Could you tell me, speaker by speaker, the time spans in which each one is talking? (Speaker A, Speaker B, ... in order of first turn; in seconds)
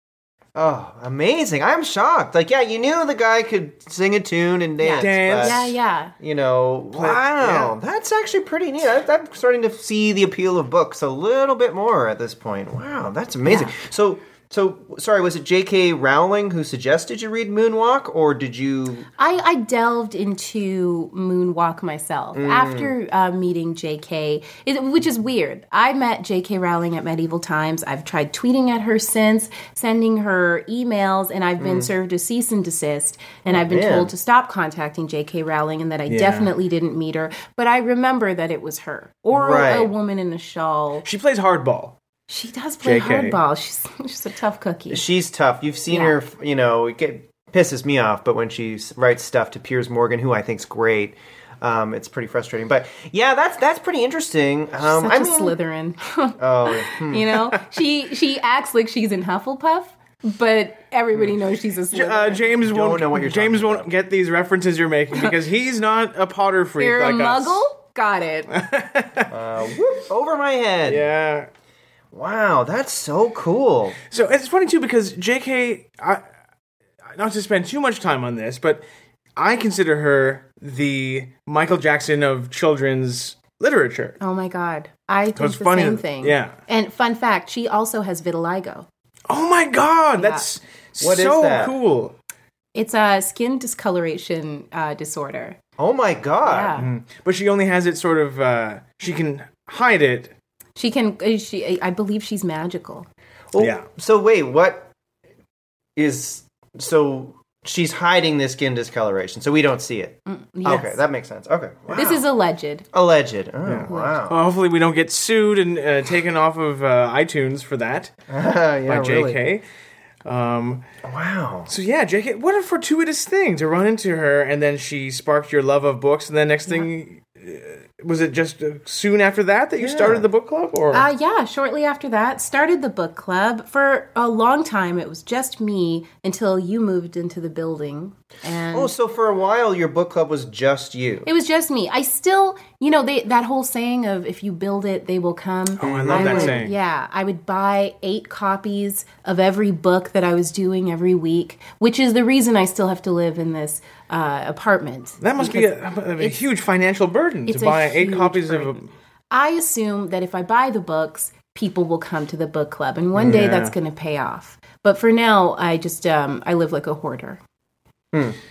Speaker A: 0.6-5.7, 6.2-19.1, 22.3-22.9, 31.6-31.9, 33.5-34.1, 39.3-39.9, 44.9-55.5, 56.4-57.4, 62.6-63.9, 69.3-71.1, 72.1-74.0, 91.0-91.7, 95.8-96.8, 103.5-104.9, 106.0-112.2, 112.9-114.4, 118.3-119.4, 121.0-121.7, 129.8-130.3, 138.7-141.3, 145.8-146.7
Speaker B: 4.8-6.1, 13.4-13.7, 19.2-41.0, 42.3-45.0, 45.9-46.1, 54.8-62.5, 66.8-68.5, 84.2-88.9, 90.2-90.4, 92.7-95.6, 96.4-96.9, 100.8-103.1, 110.2-111.0, 111.9-112.8, 130.9-138.9, 141.2-156.4, 157.5-167.4
Speaker C: 5.0-5.7, 6.9-7.7, 36.1-36.5, 41.0-42.0, 42.8-43.4, 61.9-67.6, 68.5-69.3, 70.9-71.5, 74.1-76.2, 77.1-78.8, 79.3-84.2, 85.3-86.5, 89.3-92.1, 96.8-100.3, 103.6-103.8, 113.7-118.1, 118.8-119.6, 120.2-120.8, 121.7-131.1, 145.8-146.7, 155.2-158.8, 163.1-163.7